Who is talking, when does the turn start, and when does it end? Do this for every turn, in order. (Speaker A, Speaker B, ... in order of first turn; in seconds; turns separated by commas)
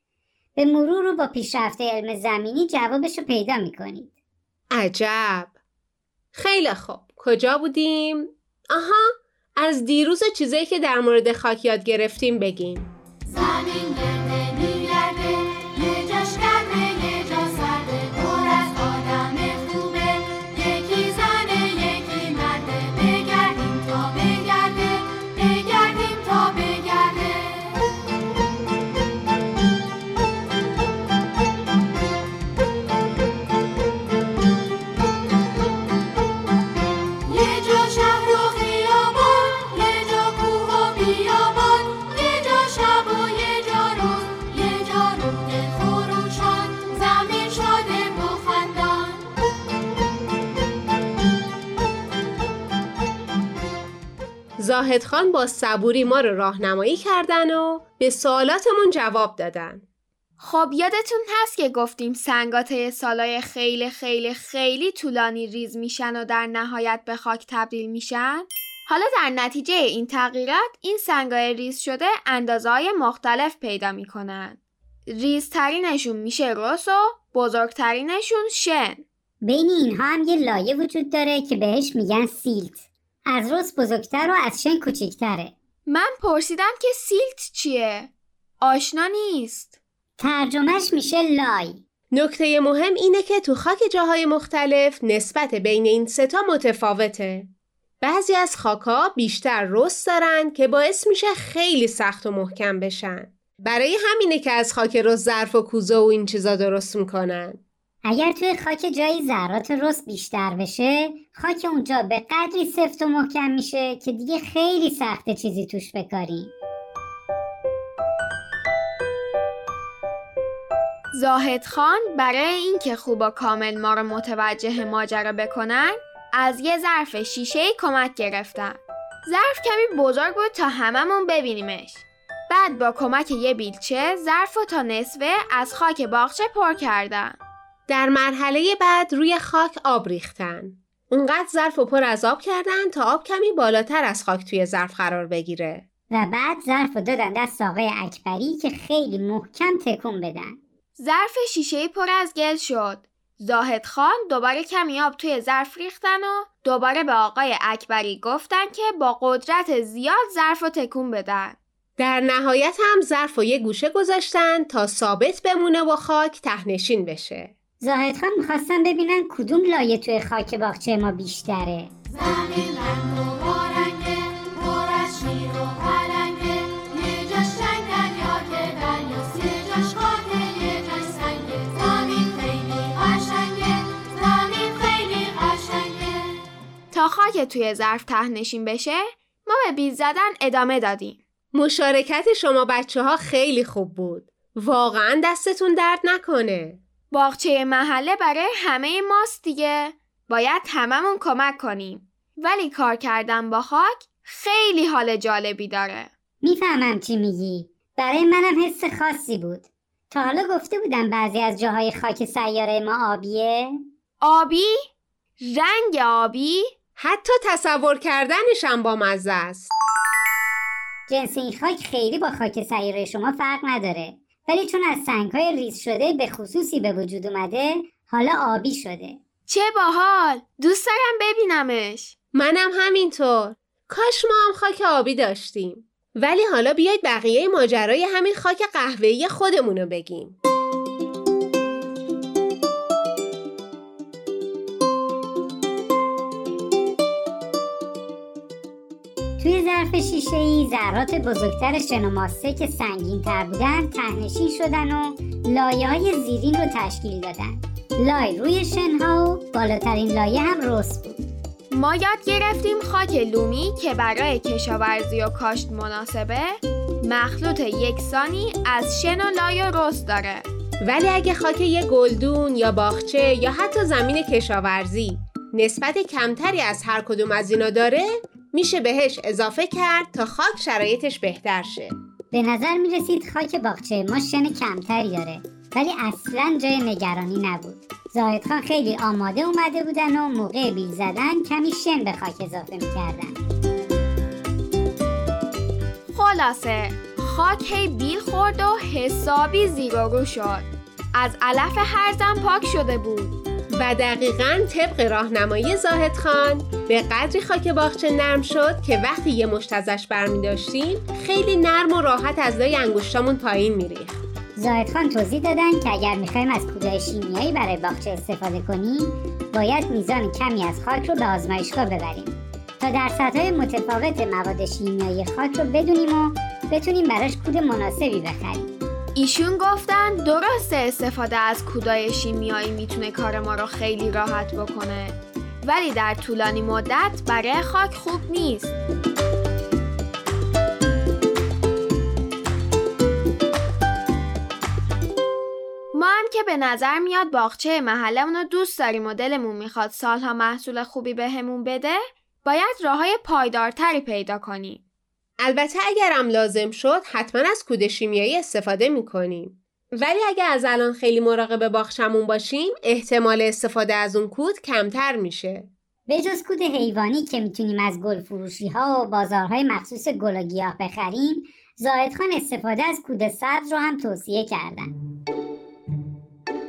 Speaker A: 0.6-4.1, Speaker B: 4.8-5.5, Speaker B: 6.3-12.9, Speaker C: 13.3-27.8, Speaker C: 37.2-49.3, Speaker B: 54.6-59.8, Speaker D: 60.4-74.6, Speaker D: 75.1-79.0, Speaker A: 79.4-85.5, Speaker D: 85.9-89.8, Speaker A: 90.2-91.8, Speaker B: 92.1-97.5, Speaker B: 98.0-107.6, Speaker A: 108.0-116.5, Speaker D: 121.1-137.4, Speaker B: 137.9-145.8, Speaker A: 146.1-150.6, Speaker D: 151.0-161.6, Speaker B: 162.0-167.5, Speaker A: 167.8-171.9, Speaker C: 172.2-186.3, Speaker D: 186.9-191.2, Speaker B: 191.5-196.8, Speaker D: 197.1-206.1, Speaker A: 206.4-213.8, Speaker D: 214.2-214.9, Speaker D: 215.4-216.7, Speaker B: 217.0-219.7, Speaker A: 221.1-229.2, Speaker D: 229.5-232.1, Speaker B: 232.3-240.4, Speaker A: 249.4-261.2, Speaker D: 261.7-270.5, Speaker B: 270.8-281.9, Speaker A: 282.3-293.4, Speaker D: 296.1-303.4, Speaker B: 303.7-314.2, Speaker A: 314.6-328.7, Speaker D: 329.1-338.8, Speaker D: 345.9-354.8, Speaker B: 355.4-365.7, Speaker A: 366.1-374.9